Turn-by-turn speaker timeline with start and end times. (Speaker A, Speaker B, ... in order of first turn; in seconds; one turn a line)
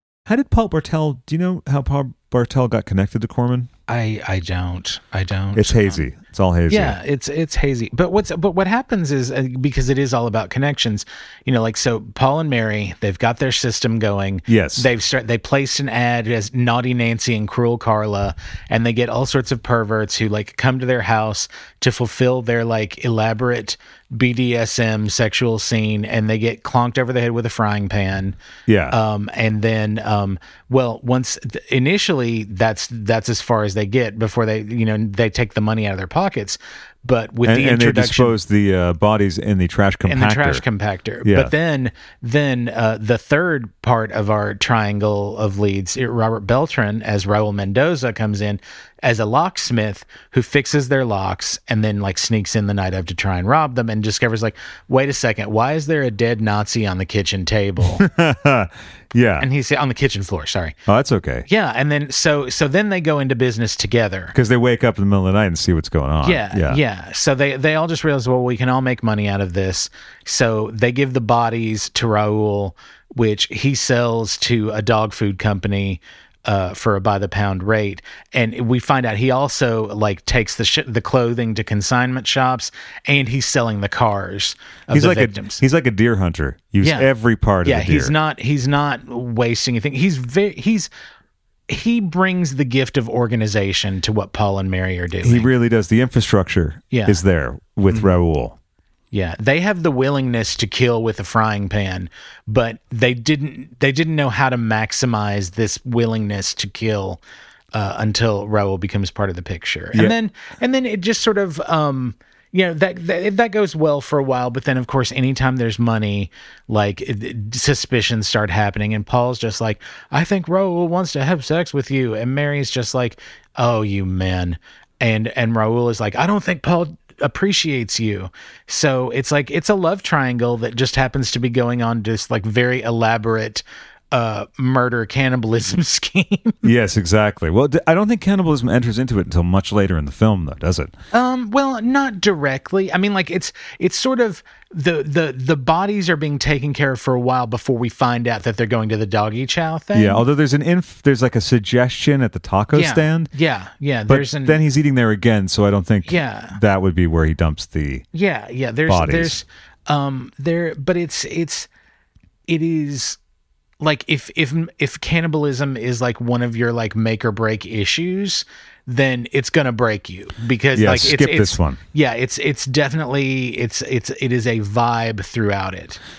Speaker A: 0.2-3.7
Speaker B: 3.9-6.0
Speaker A: 5.5-7.0
Speaker B: 6.7-28.4
Speaker A: 14.5-14.9
Speaker A: 28.7-28.9
Speaker B: 28.9-38.4
Speaker A: 37.4-40.6
Speaker B: 40.1-58.0
Speaker A: 41.2-41.5
Speaker A: 57.9-59.5
Speaker B: 59.4-60.8
Speaker A: 60.9-61.5
Speaker B: 61.5-64.3
Speaker A: 64.3-66.8
Speaker B: 66.2-85.6
Speaker A: 84.9-88.1
Speaker B: 86.8-87.1
Speaker B: 87.6-90.9
Speaker B: 91.7-95.5
Speaker A: 95.2-98.5
Speaker B: 96.9-97.2
Speaker B: 99.1-107.2
Speaker B: 107.7-136.7
Speaker A: 136.6-140.9
Speaker B: 141.1-150.2
Speaker A: 149.9-153.3
Speaker B: 152.7-154.6
Speaker A: 154.1-158.0
Speaker B: 156.1-156.6
Speaker B: 158.1-161.7
Speaker A: 158.9-159.4
Speaker B: 162.5-163.2
Speaker B: 163.8-176.0
Speaker A: 170.7-171.8